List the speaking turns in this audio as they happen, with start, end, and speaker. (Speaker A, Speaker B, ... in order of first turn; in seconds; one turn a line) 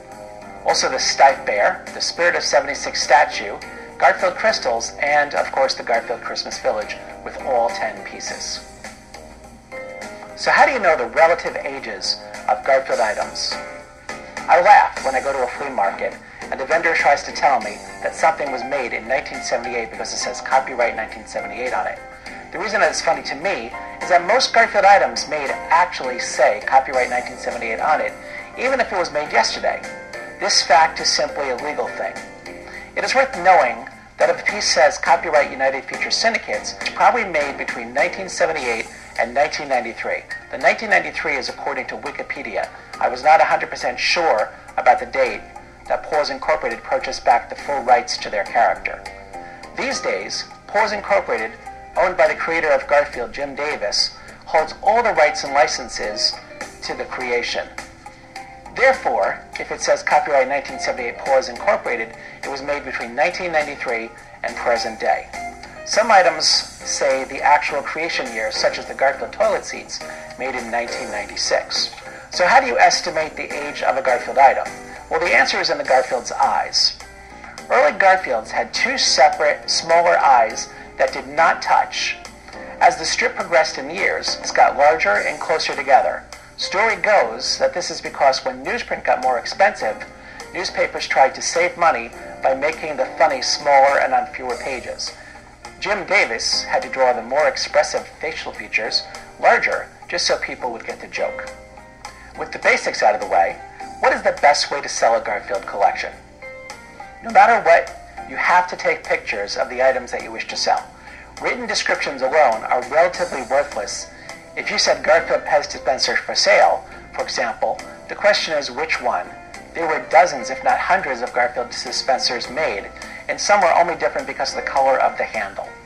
Speaker A: 0.6-8.7
Speaker A: 10.4-13.6
Speaker A: 14.5-22.0
Speaker A: 22.5-32.2
Speaker A: 32.9-49.0
Speaker A: 49.7-57.7
Speaker A: 58.7-77.0
Speaker A: 77.7-82.2
Speaker A: 82.8-95.1
Speaker A: 95.8-101.5
Speaker A: 102.3-106.2
Speaker A: 107.2-110.9
Speaker A: 111.4-125.7